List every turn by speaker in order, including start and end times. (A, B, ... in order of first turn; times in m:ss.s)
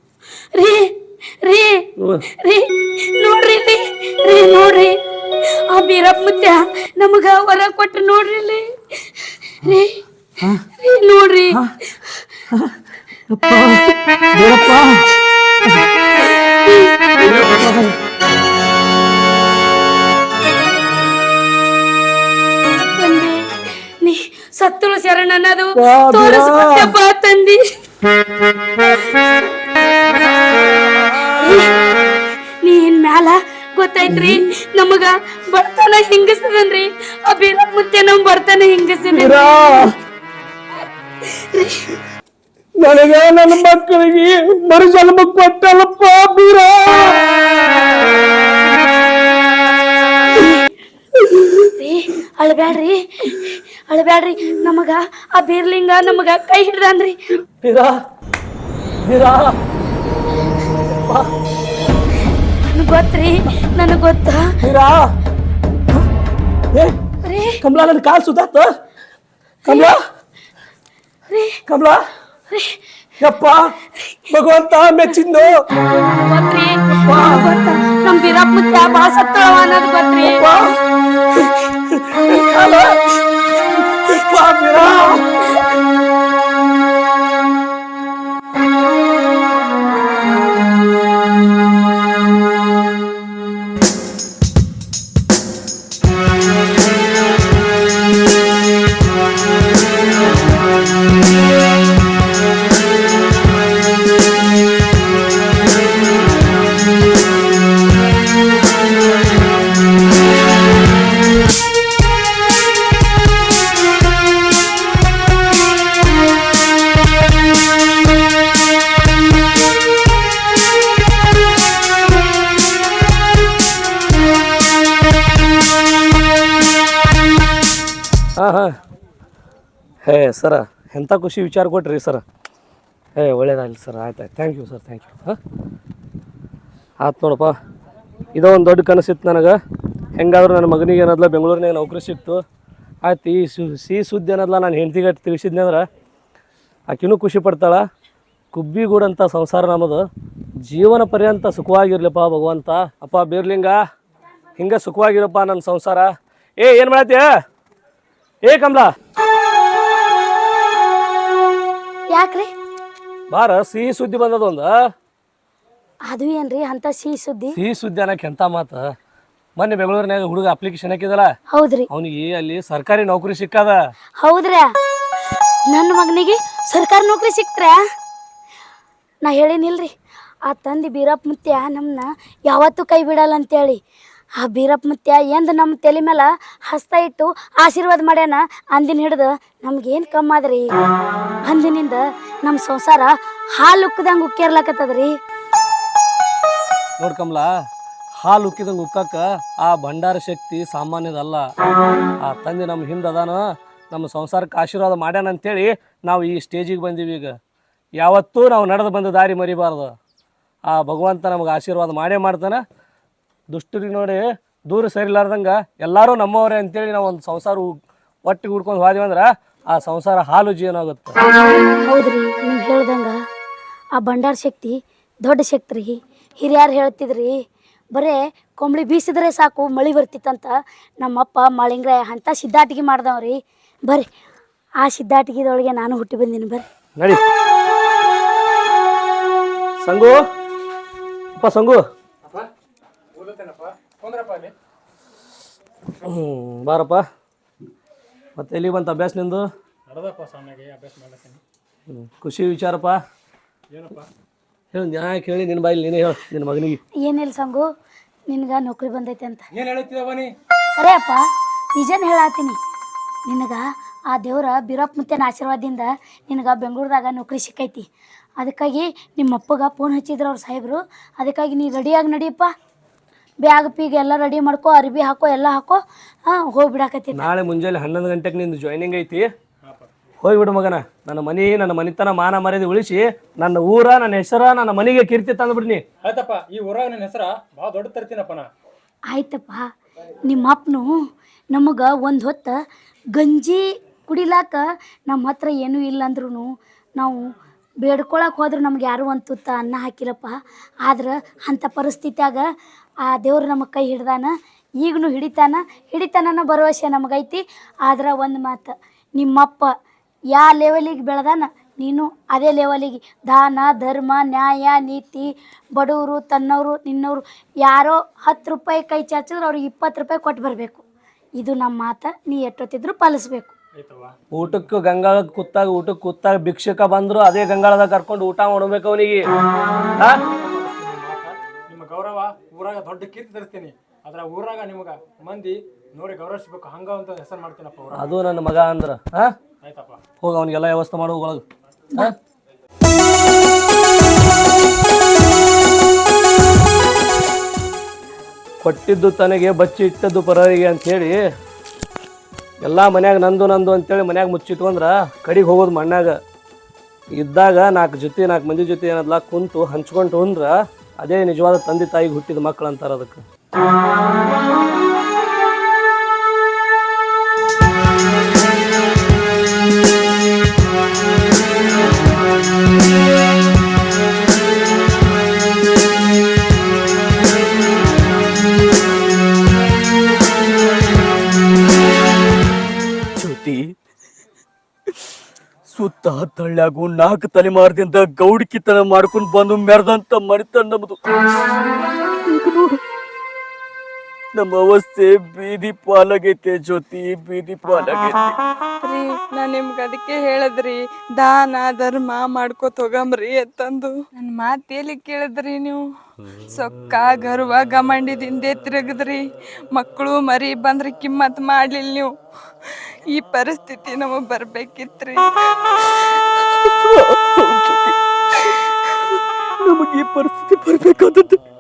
0:00.5-0:01.9 A
0:02.0-0:02.2 B
0:02.4-0:05.0 A
0:05.7-0:10.0 A
0:10.8-0:11.6 A
0:12.5-0:12.8 B
0:13.3-0:15.0 B
0:16.6-0:16.9 A
0:17.2-0:18.0 B
0:22.9-0:23.4 A
0:24.0-0:27.6 A
0:25.8-0:26.9 B
0:31.3-0:31.7 A
0:32.6-0:39.8 A
0:34.0-0:34.4 B
0:39.1-0:39.9 B
0:41.4-0:41.8 A
0:42.8-0:47.8 B
0:51.3-0:51.6 B
0:51.6-0:57.2 A
0:57.6-0:58.0 B
0:59.0-0:59.6 B
1:00.9-1:01.3 B
1:02.7-1:04.6 A
1:04.6-1:05.1 B
1:07.2-1:07.6 A
1:07.6-1:08.7 B
1:09.7-1:09.9 A
1:09.7-1:10.0 B
1:11.3-1:11.6 A
1:11.7-1:12.1 B
1:12.5-1:12.8 A
1:13.2-1:13.7 B
1:14.3-1:15.6 B
1:15.9-1:20.4 A
1:17.1-1:17.4 B
1:20.2-1:20.8 B
1:21.4-1:23.0 B
1:24.0-1:25.3 B
2:08.4-2:08.8 B
2:10.0-2:12.2 B
2:13.2-2:15.4 B
2:17.0-2:17.5 B
2:18.4-2:19.6 B
2:20.2-2:22.4 B
2:23.0-2:25.9 B
2:26.9-2:27.8 B
2:28.5-2:30.0 B
2:30.6-2:33.8 B
2:34.6-2:37.2 B
2:38.4-2:38.9 B
2:42.1-2:42.5 A
2:43.3-2:44.7 B
2:46.1-2:47.5 A
2:47.6-2:48.9 B
2:49.6-2:51.3 B
2:51.5-2:51.9 A
2:51.9-2:53.8 B
2:54.2-2:54.7 A
2:55.7-2:57.8 A
2:59.2-2:59.9 A
3:00.5-3:03.8 A
3:04.4-3:10.6 A
3:11.4-3:15.1 A
3:17.0-3:17.5 B
3:18.2-3:21.5 B
3:22.2-3:27.4 B
3:28.0-3:29.9 B
3:30.7-3:32.6 B
3:33.5-3:41.2 B
3:41.8-3:43.2 A
3:44.0-3:47.3 A
3:48.0-3:53.4 A
3:54.8-3:56.6 A
3:59.8-4:00.2 B
4:01.4-4:01.8 B
4:03.2-4:04.5 C
4:06.0-4:07.0 B
4:08.4-4:09.4 B
4:09.9-4:11.4 C
4:11.9-4:13.0 B
4:13.7-4:14.1 C
4:14.7-4:16.8 B
4:17.0-4:17.6 A
4:18.3-4:19.4 A
4:19.5-4:20.3 C
4:20.8-4:22.6 A
4:23.3-4:27.9 A
4:28.4-4:32.5 A
4:33.4-4:37.3 A
4:37.2-4:39.3 B
4:39.6-4:39.9 C
4:40.2-4:45.8 B
4:46.0-4:48.5 C
4:49.1-4:49.7 A
4:50.2-4:50.9 A
4:51.5-4:52.5 A
4:53.1-4:56.5 A
4:57.8-5:02.4 A
5:03.0-5:09.7 A
5:10.4-5:20.8 A
5:21.4-5:23.5 A
5:23.8-5:24.6 C
5:24.3-5:29.2 B
5:30.2-5:38.2 C
5:37.9-5:39.3 B
5:39.6-5:40.0 C
5:40.2-5:41.4 B
5:48.6-5:51.2 B
5:52.6-5:56.2 B
5:57.2-6:03.2 B
6:23.2-6:23.7 D
6:25.7-6:31.0 D
6:32.2-6:32.8 D
6:34.4-6:38.4 D
6:38.8-6:45.8 E
6:46.5-6:49.2 E
6:49.7-6:52.1 E
6:53.1-6:55.3 E
6:56.5-7:01.4 D